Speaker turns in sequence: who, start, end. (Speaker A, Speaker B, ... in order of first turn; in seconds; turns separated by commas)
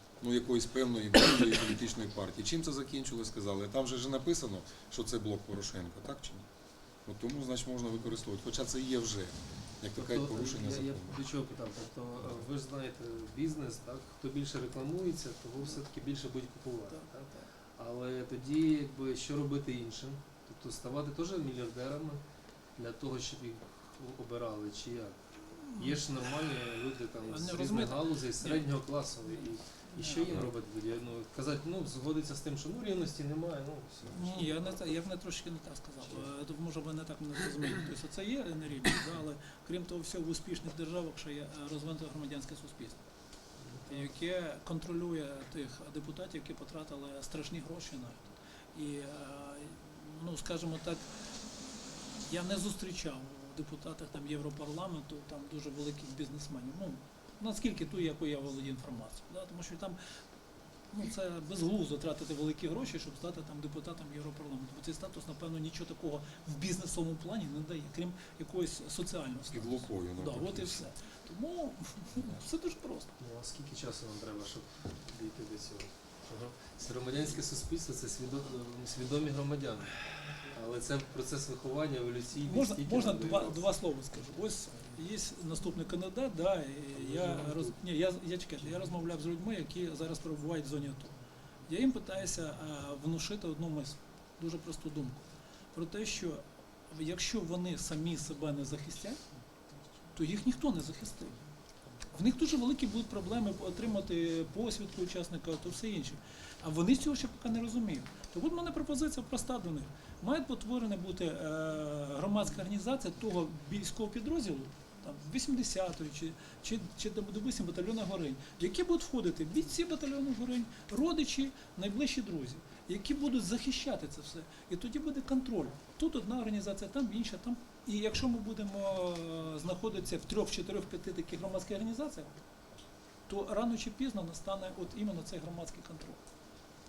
Speaker A: 0.2-6.5, Speaker A: 7.0-11.2, Speaker B: 9.9-22.2, Speaker C: 16.9-17.5, Speaker B: 22.8-25.2, Speaker C: 25.6-26.0, Speaker B: 25.7-34.8, Speaker C: 27.2-28.7, Speaker C: 29.3-30.5, Speaker C: 34.1-43.0, Speaker B: 43.6-44.1, Speaker C: 43.9-51.1, Speaker C: 51.6-60.0, Speaker C: 60.9-73.1, Speaker A: 69.5-70.9, Speaker B: 73.2-83.7, Speaker C: 82.4-99.2, Speaker B: 86.9-87.8, Speaker C: 100.1-101.4, Speaker C: 102.0-132.4, Speaker C: 133.3-136.2